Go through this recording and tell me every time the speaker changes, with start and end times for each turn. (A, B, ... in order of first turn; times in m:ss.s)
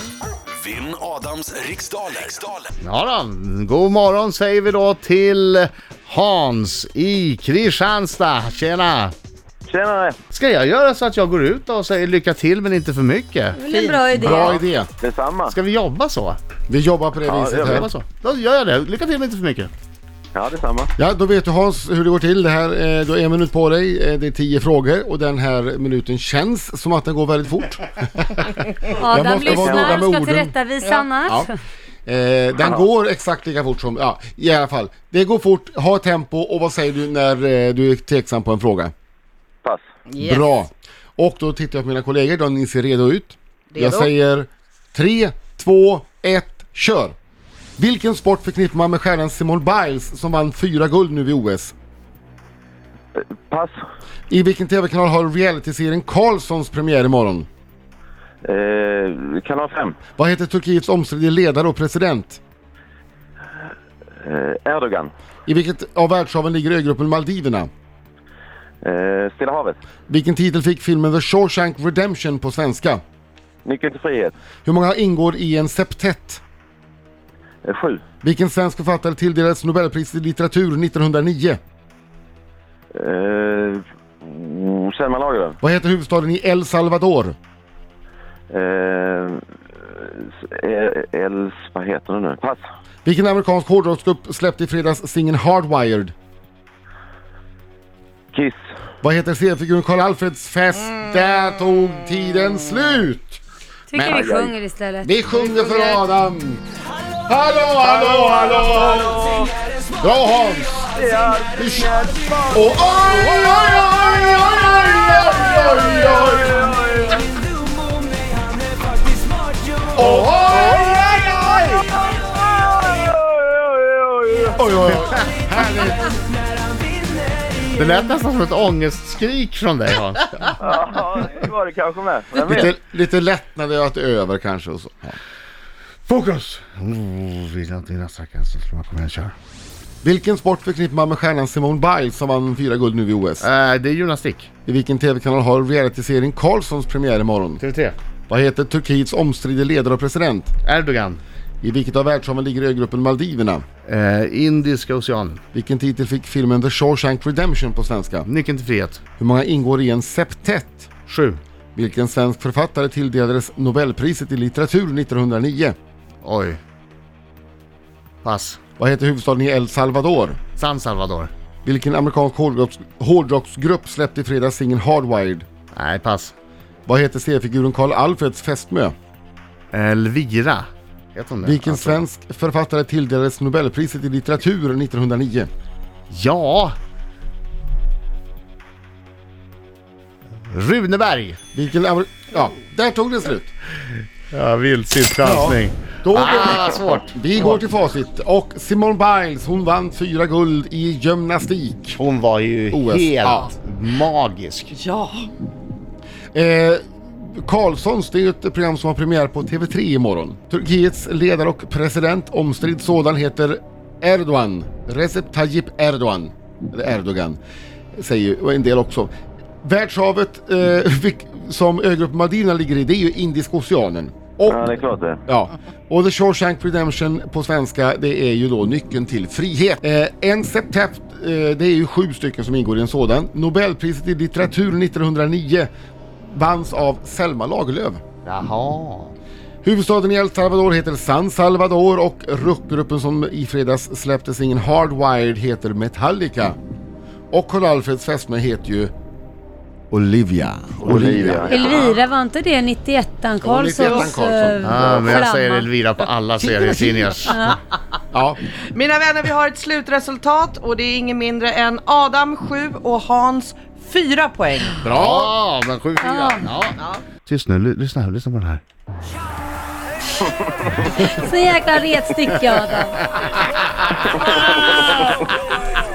0:00.6-0:02.7 A
0:02.8-0:09.1 B
0:09.7-0:10.2 C
0:10.3-0:13.6 B
0:13.6-0:14.6 D
0:14.1-0:14.9 E
0:15.0-0:15.5 C
0:15.5-0:16.4 B
0:16.7-0:17.9 E
0:17.2-0:17.9 C
0:17.6-0:19.7 B
0:20.3-0:20.9 C
0:21.0-0:30.5 E
0:29.0-0:31.5 D
0:29.4-0:30.0 C
0:32.0-0:38.9 E
0:40.2-0:47.1 E
0:47.8-0:51.7 E
0:53.2-0:53.7 C
0:54.3-0:57.5 E
0:58.4-1:00.0 C
1:00.2-1:02.4 E
1:04.2-1:05.1 C
1:05.5-1:07.7 E
1:08.8-1:09.8 C
1:10.1-1:13.0 E
1:13.6-1:14.3 C
1:14.6-1:16.4 E
1:17.6-1:18.0 C
1:18.2-1:21.6 E
1:23.0-1:25.6 C
1:25.6-1:27.4 E
1:28.5-1:32.6 C
1:33.0-1:36.1 E
1:39.0-1:43.4 E
1:43.9-1:46.0 D
1:44.0-1:44.5 C
1:44.0-1:44.4 E
1:45.0-1:46.6 E
1:47.3-1:49.3 E
1:47.8-1:49.5 C
1:50.0-1:50.9 E
1:50.9-1:54.1 C
1:51.6-1:51.9 E
1:52.5-1:56.8 E
1:55.2-1:57.2 C
2:00.0-2:01.0 E
2:00.0-2:01.9 B
2:02.1-2:05.0 C
2:04.6-2:06.1 E
2:07.7-2:10.5 B
2:10.6-2:12.7 C
2:12.5-2:15.2 E
2:16.1-2:19.3 B
2:20.0-2:23.5 E
2:23.4-2:24.5 B
2:24.7-2:27.6 E
2:27.6-2:28.0 B
2:28.3-2:30.5 E
2:30.6-2:31.2 B
2:31.6-2:33.6 E
2:33.8-2:35.4 B
2:35.5-2:38.3 E
2:38.2-2:39.0 B
2:39.2-2:40.9 E
2:41.1-2:41.4 B
2:41.8-2:45.8 E
2:46.2-2:46.6 B
2:48.2-2:48.6 B
2:48.8-2:50.4 E
2:50.6-2:51.3 B
2:51.6-2:55.4 E
2:55.7-2:56.3 B
2:56.9-2:58.9 E
2:59.7-3:02.0 B
3:01.4-3:05.5 E
3:06.1-3:06.8 B
3:10.5-3:11.4 B
3:11.5-3:13.5 E
3:14.3-3:17.6 B
3:15.2-3:22.0 E
3:21.9-3:24.7 B
3:22.7-3:23.5 E
3:24.8-3:25.3 F
3:26.3-3:37.4 E
3:37.9-3:39.1 E
3:39.6-3:44.7 E
3:44.5-3:45.2 C
3:45.3-3:55.7 E
3:56.3-3:58.0 E
3:58.2-3:59.2 B
3:59.6-4:06.6 E
4:07.3-4:08.9 E
4:09.9-4:11.7 E
4:10.8-4:12.0 C
4:11.5-4:15.7 D
4:13.4-4:15.2 E
4:14.6-4:17.4 B
4:16.4-4:17.2 E
4:17.3-4:17.6 D
4:18.1-4:18.4 E
4:18.8-4:24.7 F
4:24.8-4:25.3 E
4:24.9-4:28.6 B
4:26.0-4:26.4 D
4:31.0-4:33.0 D
4:33.2-4:35.4 B
4:34.2-4:35.1 C